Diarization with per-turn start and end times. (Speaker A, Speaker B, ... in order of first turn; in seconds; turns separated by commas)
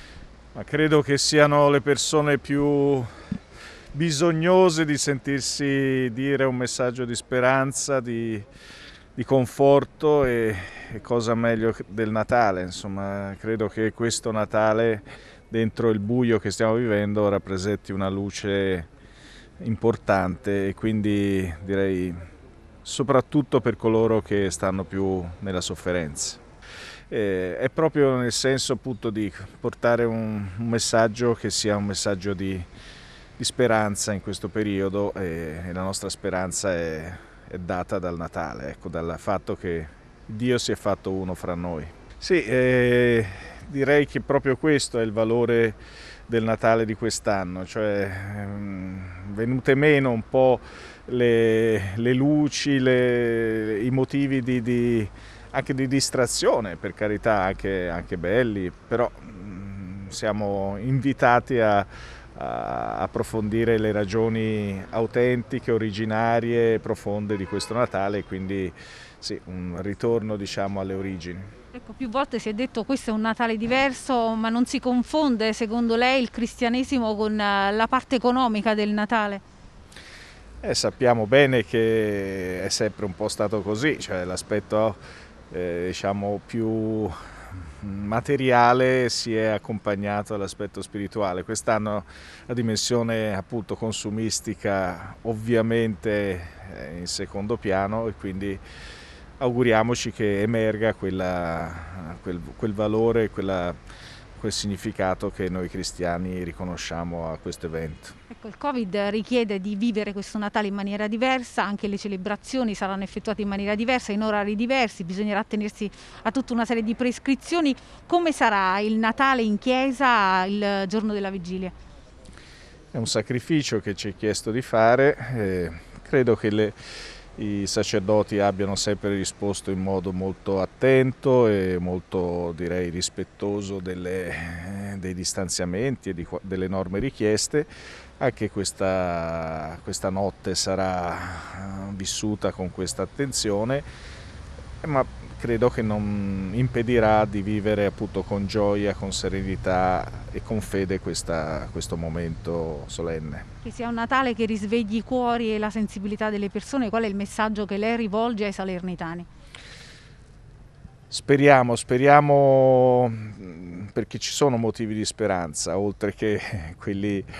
Speaker A: 0.5-3.1, Speaker A: 3.9-8.4, Speaker A: 9.2-18.9, Speaker A: 19.6-22.2, Speaker A: 22.8-26.4, Speaker A: 27.1-32.7, Speaker A: 33.4-45.8, Speaker A: 46.3-71.5, Speaker B: 71.7-79.4, Speaker A: 80.6-85.0, Speaker A: 85.5-98.6, Speaker A: 99.4-103.8, Speaker A: 104.4-108.2, Speaker B: 108.3-121.7, Speaker A: 122.9-126.7, Speaker A: 127.4-143.8, Speaker A: 144.8-153.5, Speaker B: 153.6-159.3, Speaker A: 161.1-167.3